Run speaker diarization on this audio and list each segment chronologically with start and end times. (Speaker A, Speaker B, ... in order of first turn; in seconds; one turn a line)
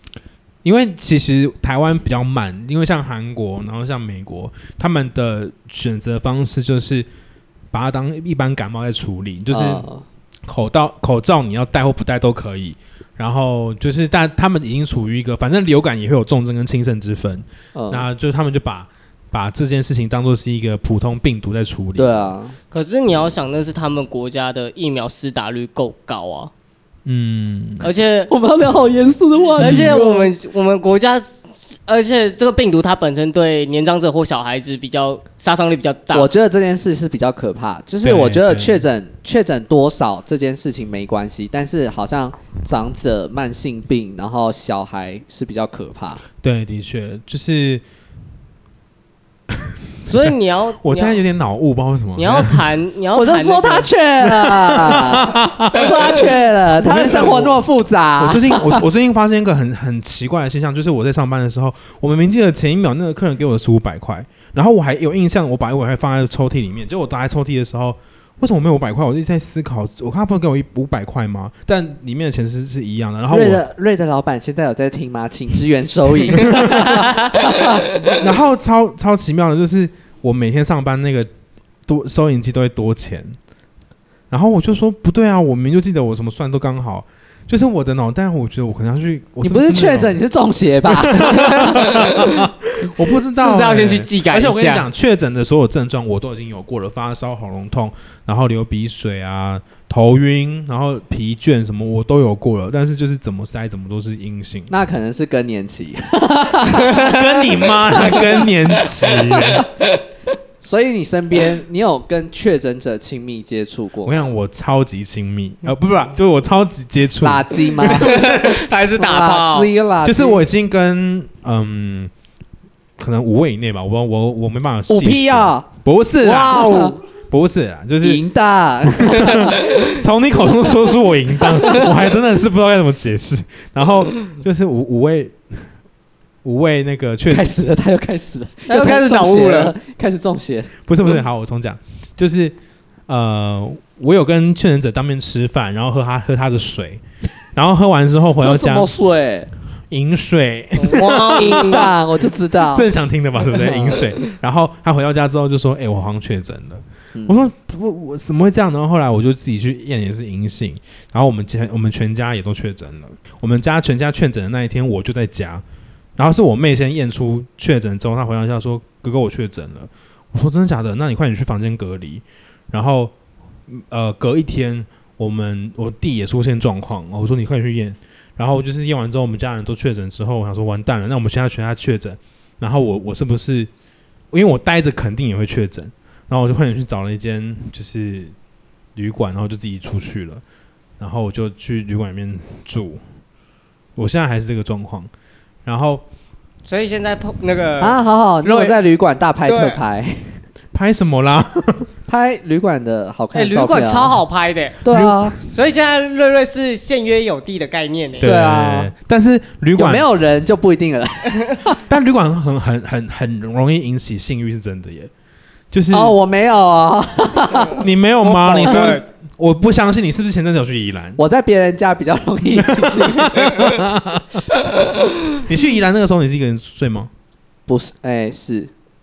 Speaker A: 0.6-7.1
Speaker A: 7.7-9.8
Speaker B: 9.5-10.0
Speaker A: 10.4-22.3
Speaker B: 17.7-18.0
Speaker B: 21.9-22.6
Speaker C: 22.7-26.5
Speaker A: 27.1-27.9
Speaker C: 27.8-28.3
Speaker B: 28.3-30.3
Speaker C: 29.6-36.3
Speaker A: 29.6-29.9
Speaker B: 36.1-46.2
Speaker A: 38.0-38.8
Speaker A: 46.4-47.8
Speaker C: 50.1-51.2
Speaker A: 50.8-52.6
Speaker C: 52.2-53.9
Speaker B: 53.1-58.8
Speaker A: 54.2-55.9
Speaker A: 56.8-57.6
Speaker A: 58.2-73.6
Speaker B: 73.3-78.2
Speaker A: 78.2-81.3
Speaker A: 81.9-83.3
Speaker A: 84.3-90.2
Speaker B: 89.4-91.8
Speaker A: 90.9-104.7
Speaker C: 91.3-92.3
Speaker C: 93.3-94.9
Speaker B: 104.7-108.5
Speaker A: 106.9-109.7
Speaker B: 109.3-109.6
Speaker B: 110.6-114.3
Speaker A: 114.0-118.6
Speaker B: 117.2-120.4
Speaker C: 117.8-119.7
Speaker A: 120.0-122.1
Speaker A: 123.0-126.7
Speaker B: 124.9-125.7
Speaker C: 126.3-127.0
Speaker B: 126.3-127.0
Speaker A: 127.3-128.2
Speaker B: 128.0-129.6
Speaker A: 128.9-135.7
Speaker B: 131.6-131.9
Speaker A: 136.4-137.5
Speaker B: 137.3-140.7
Speaker C: 138.7-139.7
Speaker A: 140.9-147.0
Speaker A: 147.5-148.9
Speaker B: 148.4-149.5
Speaker A: 149.9-151.8
Speaker C: 150.8-151.9
Speaker B: 151.3-152.9
Speaker A: 152.7-165.6
Speaker B: 153.5-154.0
Speaker A: 166.2-173.1
Speaker A: 173.7-183.7
Speaker A: 184.3-188.3
Speaker A: 188.9-190.4
Speaker A: 191.0-193.0
Speaker A: 193.9-195.1
Speaker A: 195.6-196.0
Speaker C: 196.6-198.8
Speaker B: 197.8-200.4
Speaker C: 199.4-199.8
Speaker A: 200.7-201.9
Speaker B: 202.1-204.2
Speaker C: 203.3-204.8
Speaker B: 204.8-205.3
Speaker A: 204.9-205.3
Speaker C: 205.5-208.3
Speaker A: 208.2-210.0
Speaker B: 208.2-208.9
Speaker B: 209.8-211.8
Speaker A: 211.9-215.1
Speaker A: 215.7-216.1
Speaker B: 215.9-217.9
Speaker C: 217.5-219.0
Speaker A: 217.8-221.2
Speaker B: 218.6-218.9
Speaker B: 221.2-223.6
Speaker A: 222.6-224.4
Speaker A: 225.4-227.1
Speaker B: 227.7-228.7